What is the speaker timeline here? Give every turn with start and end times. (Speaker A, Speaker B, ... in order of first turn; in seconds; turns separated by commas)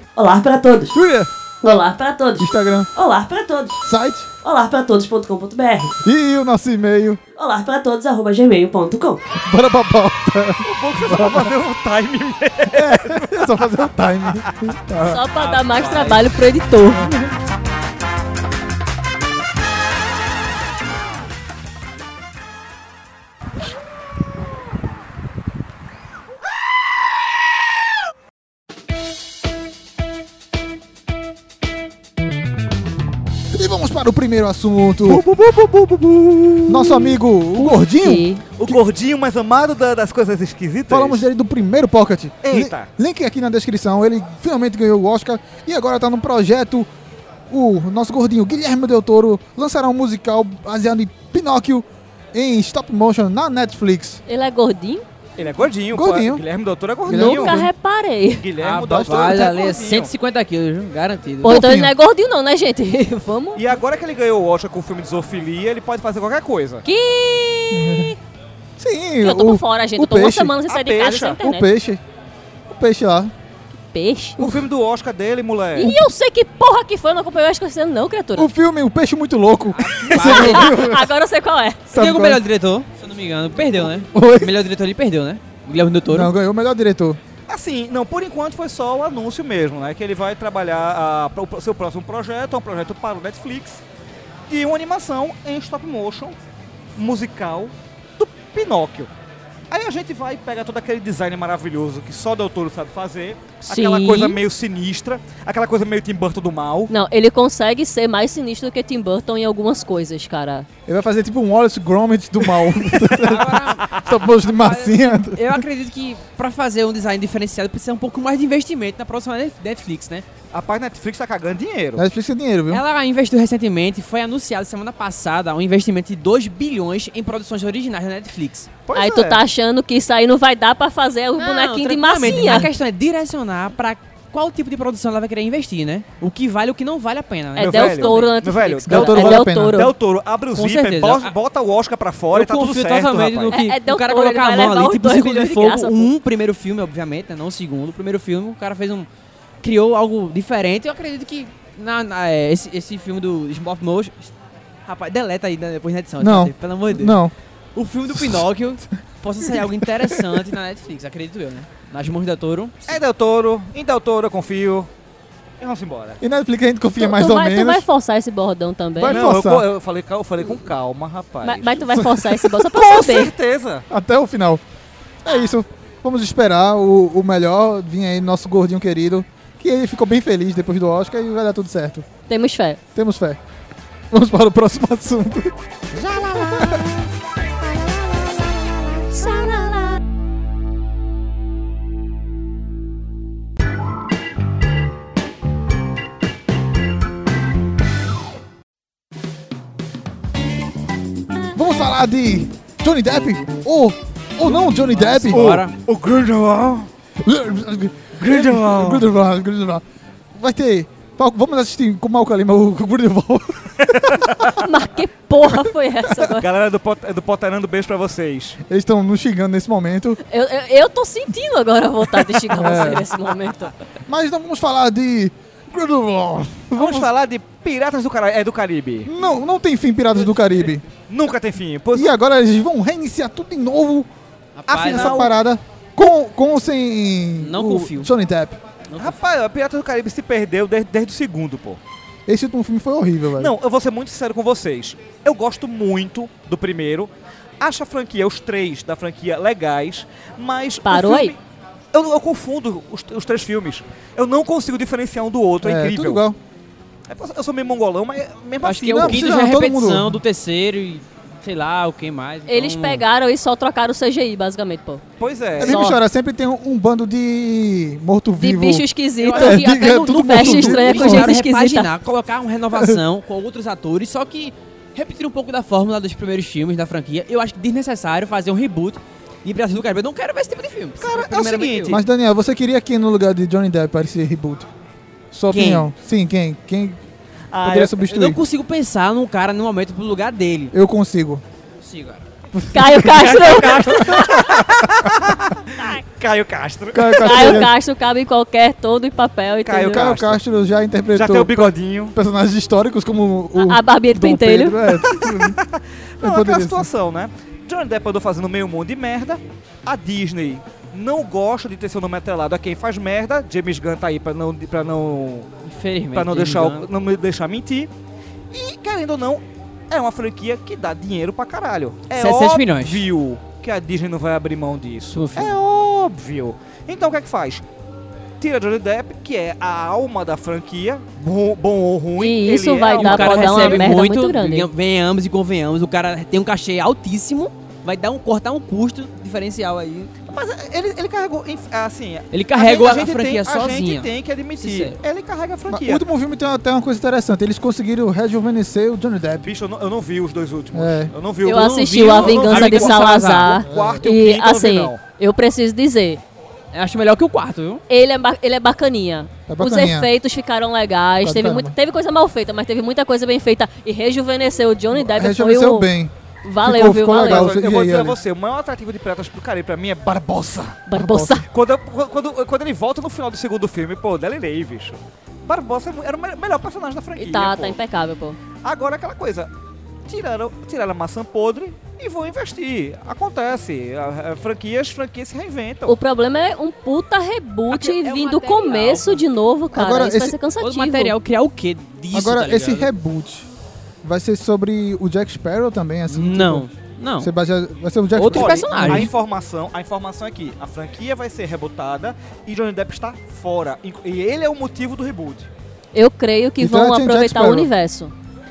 Speaker A: 0.1-0.9, Speaker B: 0.9-1.3, Speaker A: 1.6-3.8, Speaker B: 2.4-2.9, Speaker B: 3.8-4.3, Speaker A: 4.4-5.9, Speaker B: 6.0-7.2, Speaker A: 7.4-9.2, Speaker B: 9.4-11.6, Speaker C: 10.6-13.7, Speaker B: 12.7-15.2, Speaker D: 15.0-17.1, Speaker C: 15.3-16.3, Speaker B: 17.0-17.3, Speaker B: 33.5-35.2, Speaker C: 35.0-37.1, Speaker B: 36.7-38.8, Speaker D: 37.5-38.4, Speaker C: 38.6-41.2, Speaker B: 40.9-46.9, Speaker C: 42.4-42.9, Speaker B: 47.5-54.2, Speaker D: 54.3-55.0, Speaker C: 55.4-57.6, Speaker B: 55.9-56.4, Speaker B: 57.0-57.7, Speaker D: 57.1-58.5, Speaker C: 58.4-60.1, Speaker E: 58.6-61.7, Speaker B: 58.8-59.5, Speaker B: 61.4-61.9, Speaker D: 61.4-63.6, Speaker C: 63.5-66.8, Speaker D: 66.8-68.2, Speaker B: 67.7-68.1, Speaker B: 68.8-70.6, Speaker D: 69.2-71.7, Speaker C: 70.6-71.4, Speaker B: 71.4-72.0, Speaker B: 72.7-73.3, Speaker D: 73.9-74.4, Speaker C: 74.4-75.9, Speaker D: 75.8-78.5, Speaker B: 78.3-81.1, Speaker E: 79.7-80.8, Speaker D: 80.1-82.0, Speaker B: 81.9-82.4, Speaker E: 81.9-86.3, Speaker B: 83.8-84.5, Speaker B: 86.1-87.2, Speaker C: 87.5-93.8, Speaker C: 94.5-96.4, Speaker C: 97.0-99.1, Speaker C: 99.7-106.9, Speaker D: 103.7-104.4, Speaker D: 106.9-110.7, Speaker B: 110.9-115.6, Speaker E: 113.1-120.2, Speaker C: 120.5-122.0, Speaker B: 122.0-122.8, Speaker E: 122.7-128.7, Speaker C: 128.8-129.4, Speaker D: 128.9-132.7, Speaker E: 131.4-138.4, Speaker D: 137.6-139.9, Speaker C: 137.6-143.6, Speaker B: 138.9-139.8, Speaker E: 140.5-141.3, Speaker E: 142.3-149.1, Speaker D: 143.5-146.1, Speaker E: 149.6-154.3, Speaker E: 154.9-157.2, Speaker B: 156.2-157.3, Speaker E: 157.7-163.0, Speaker B: 158.2-158.4, Speaker B: 159.5-160.4, Speaker C: 162.9-164.9, Speaker C: 165.6-166.2, Speaker B: 166.2-167.8, Speaker D: 167.0-169.3, Speaker B: 168.9-169.7, Speaker C: 169.1-171.9, Speaker D: 171.4-173.3, Speaker B: 171.9-172.4, Speaker C: 172.6-173.8, Speaker B: 173.9-174.6, Speaker B: 175.2-182.1, Speaker D: 182.3-182.8, Speaker B: 182.9-183.4, Speaker B: 184.1-185.6, Speaker B: 186.3-186.8, Speaker D: 189.1-190.0, Speaker B: 201.5-205.6, Speaker E: 204.4-205.7, Speaker C: 205.3-206.9, Speaker B: 207.2-209.8, Speaker C: 208.2-209.1, Speaker B: 210.3-214.4, Speaker C: 213.9-214.5, Speaker D: 214.5-216.4, Speaker C: 216.2-218.6, Speaker B: 218.7-220.2, Speaker D: 220.2-223.7, Speaker B: 222.5-223.1, Speaker B: 224.1-227.1, Speaker C: 226.7-229.1, Speaker B: 229.1-230.8, Speaker C: 231.1-232.1, Speaker B: 231.9-234.1, Speaker E: 234.6-235.3, Speaker C: 234.7-235.4, Speaker B: 234.8-238.6, Speaker E: 237.4-238.1, Speaker E: 238.9-239.2, Speaker C: 239.0-241.8, Speaker B: 242.3-243.5, Speaker C: 243.4-251.4, Speaker D: 250.8-251.3, Speaker C: 251.9-256.2, Speaker B: 255.6-256.4, Speaker C: 257.1-259.4, Speaker E: 258.6-263.0, Speaker B: 258.9-260.2, Speaker D: 262.5-265.0, Speaker C: 265.2-265.8, Speaker B: 265.6-271.3, Speaker D: 265.6-266.0, Speaker D: 268.4-271.9, Speaker E: 269.2-282.0, Speaker B: 272.7-273.0, Speaker C: 281.0-282.0, Speaker B: 281.9-284.7, Speaker B: 285.3-287.0, Speaker E: 285.5-285.9, Speaker C: 287.5-288.0, Speaker B: 287.6-288.4, Speaker E: 288.0-290.7, Speaker B: 290.7-291.4, Speaker E: 291.8-292.2, Speaker B: 292.6-295.1, Speaker D: 292.7-294.6, Speaker C: 293.0-297.7, Speaker B: 296.9-297.7, Speaker D: 297.1-300.1, Speaker C: 299.6-300.4, Speaker B: 299.9-305.6, Speaker C: 301.1-302.1, Speaker D: 303.6-304.8, Speaker C: 305.0-315.5, Speaker B: 306.2-306.9, Speaker E: 315.6-316.9, Speaker C: 316.1-317.9, Speaker C: 318.5-327.6, Speaker E: 322.1-323.1, Speaker E: 325.1-325.6, Speaker C: 328.4-334.0, Speaker D: 332.2-334.7, Speaker E: 332.9-340.1, Speaker C: 340.3-346.0, Speaker E: 342.3-345.0, Speaker B: 345.7-349.5, Speaker C: 349.4-355.0, Speaker B: 350.7-351.1, Speaker E: 351.4-353.6, Speaker D: 351.4-356.2, Speaker B: 353.6-354.0, Speaker E: 356.7-357.8, Speaker D: 357.9-365.9, Speaker B: 359.5-360.1, Speaker B: 361.2-361.7, Speaker B: 364.9-368.2, Speaker D: 366.4-367.5, Speaker C: 367.1-370.8, Speaker D: 370.9-371.4, Speaker B: 370.9-371.4, Speaker C: 371.4-377.8, Speaker D: 377.1-378.4, Speaker C: 378.6-379.5, Speaker C: 380.1-385.9, Speaker D: 385.9-391.1, Speaker E: 387.7-389.2, Speaker B: 389.7-390.4, Speaker E: 390.6-392.9, Speaker B: 392.1-393.5, Speaker B: 394.0-396.7, Speaker E: 396.1-397.3, Speaker B: 397.2-399.1, Speaker E: 398.1-399.1, Speaker C: 398.3-405.5, Speaker D: 405.9-408.1, Speaker B: 406.6-407.7